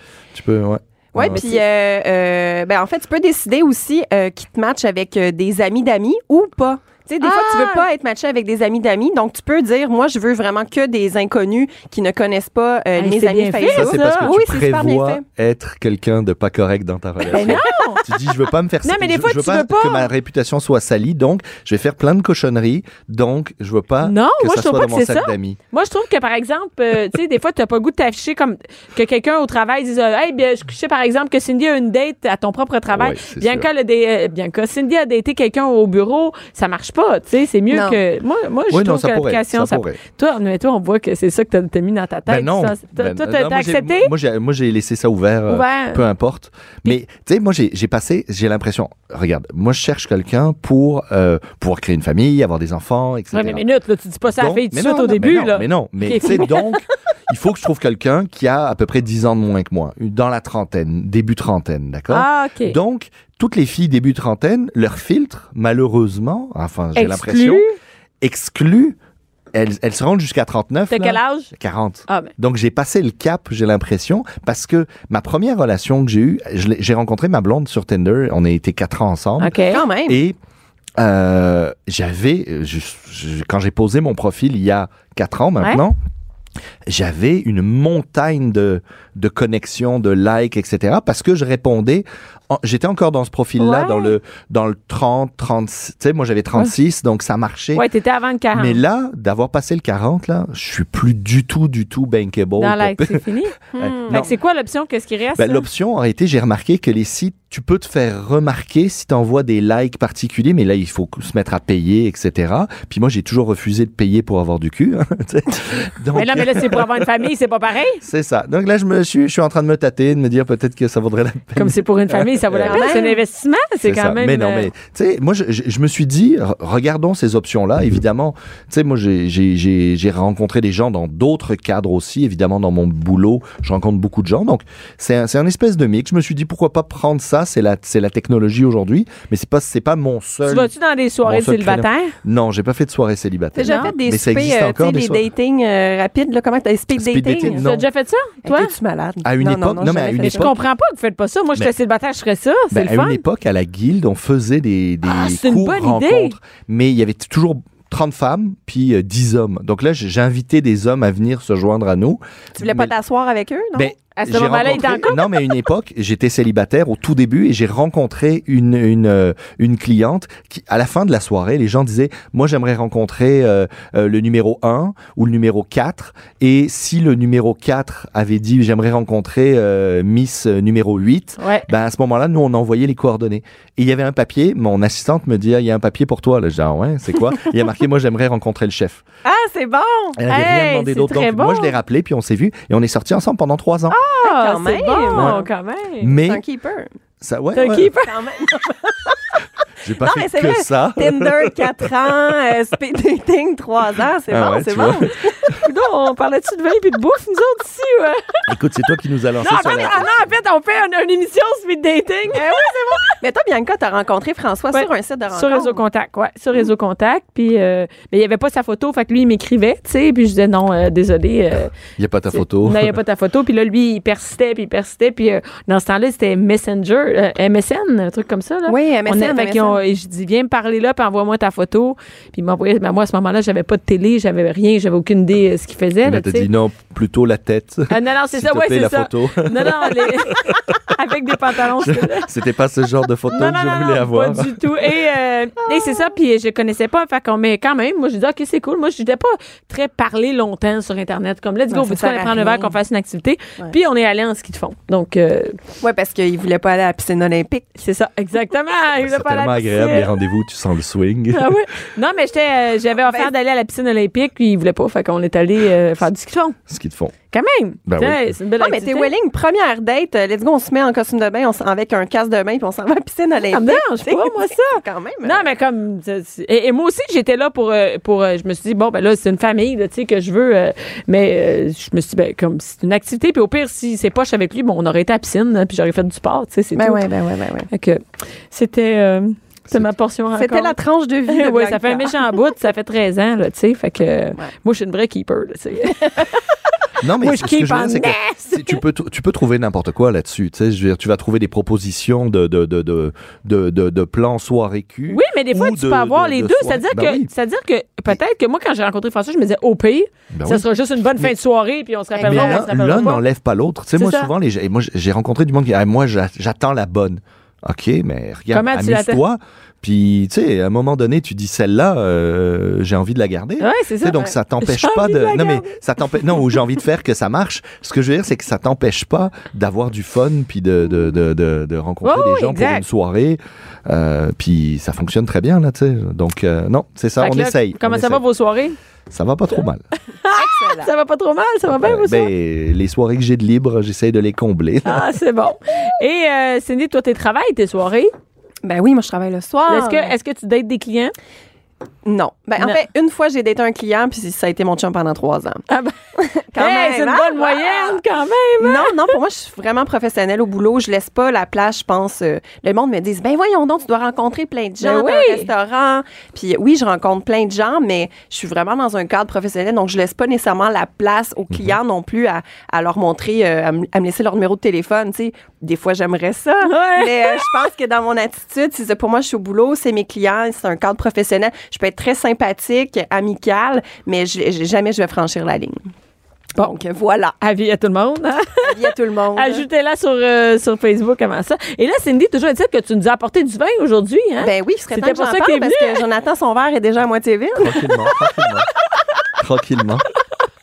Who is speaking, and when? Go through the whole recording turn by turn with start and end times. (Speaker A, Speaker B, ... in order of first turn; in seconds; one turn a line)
Speaker A: 0.3-1.4
Speaker B: 1.1-15.2
Speaker C: 1.3-1.6
Speaker C: 7.2-7.8
Speaker C: 13.0-14.4
Speaker A: 13.7-25.6
Speaker C: 17.3-18.1
Speaker B: 17.3-17.9
Speaker C: 18.8-20.1
Speaker C: 24.0-44.1
Speaker A: 32.9-33.7
Speaker B: 37.7-38.0
Speaker A: 38.7-40.0
Speaker A: 42.3-53.6
Speaker C: 45.5-46.0
Speaker C: 53.3-56.7
Speaker A: 54.3-67.6
Speaker C: 62.1-62.8
Speaker C: 67.0-67.8
Speaker A: 68.2-69.0
Speaker A: 69.5-79.5
Speaker C: 70.9-71.5
Speaker C: 79.4-79.8
Speaker B: 79.7-80.2
Speaker A: 80.1-80.4
Speaker A: 81.0-86.0
Speaker A: 86.9-97.8
Speaker C: 93.6-94.1
Speaker C: 97.8-98.8
Speaker A: 98.5-104.3
Speaker C: 102.6-105.7
Speaker A: 105.4-117.0
Speaker C: 116.1-118.0
Speaker A: 118.0-123.0
Speaker C: 121.6-124.7
Speaker B: 122.7-123.1
Speaker A: 123.8-140.7
Speaker C: 140.5-142.2
Speaker A: 141.2-145.2
Speaker B: 143.6-147.6
Speaker C: 143.7-143.9
Speaker A: 146.9-147.8
Speaker C: 147.5-148.7
Speaker B: 148.4-150.5
Speaker A: 149.2-150.6
Speaker C: 150.2-153.2
Speaker A: 152.7-162.9
Speaker C: 155.1-156.4
Speaker B: 162.6-163.9
Speaker A: 163.8-189.0
Speaker C: 164.2-165.5
Speaker C: 181.4-181.7
Speaker B: 189.2-190.2
Speaker A: 190.2-194.0
Speaker C: 190.3-191.8
Speaker B: 193.9-195.4
Speaker C: 194.2-196.1
Speaker A: 195.1-195.4
Speaker A: 196.0-196.4
Speaker B: 196.2-196.9
Speaker A: 197.2-197.9
Speaker C: 197.6-198.2
Speaker B: 198.0-199.2
Speaker A: 199.8-201.7
Speaker B: 200.0-205.3
Speaker A: 204.3-205.6
Speaker C: 205.6-208.3
Speaker A: 208.5-210.1
Speaker C: 209.4-213.2
Speaker B: 212.3-215.8
Speaker C: 214.7-221.7
Speaker A: 221.9-222.9
Speaker C: 222.3-236.5
Speaker B: 228.7-229.8
Speaker A: 236.0-240.6
Speaker C: 237.9-242.3
Speaker A: 241.8-244.6
Speaker C: 243.3-255.6
Speaker B: 251.7-252.8
Speaker B: 255.8-257.7
Speaker C: 257.8-260.1
Speaker A: 259.0-261.6
Speaker C: 261.3-266.6
Speaker A: 266.7-267.1
Speaker C: 267.3-269.1
Speaker A: 267.9-268.3
Speaker B: 268.6-275.5
Speaker C: 273.5-287.0
Speaker B: 286.8-287.7
Speaker C: 287.7-290.8
Speaker B: 290.4-292.2
Speaker C: 291.3-296.4
Speaker A: 297.0-307.3
Speaker C: 297.2-298.8
Speaker C: 305.1-313.2
Speaker A: 310.3-310.6
Speaker B: 312.1-312.6
Speaker A: 312.2-338.2
Speaker C: 314.0-314.3
Speaker C: 318.5-319.2
Speaker C: 323.6-325.8
Speaker C: 332.0-332.8
Speaker C: 337.2-338.8
Speaker A: 339.1-339.9
Speaker C: 340.2-342.3
Speaker B: 340.3-340.9
Speaker A: 341.7-345.1
Speaker C: 344.9-348.1
Speaker B: 348.6-350.1
Speaker C: 349.7-351.1
Speaker B: 352.1-355.6
Speaker C: 355.7-355.9
Speaker B: 356.2-358.0
Speaker C: 356.6-359.0
Speaker B: 358.6-385.9
Speaker C: 364.8-365.5
Speaker A: 371.5-371.8
Speaker C: 376.6-377.5
Speaker B: 386.6-387.4
Speaker C: 387.4-396.0
Speaker B: 388.7-389.6
Speaker B: 394.4-397.8
Speaker A: 397.6-398.7
Speaker A: 399.4-400.1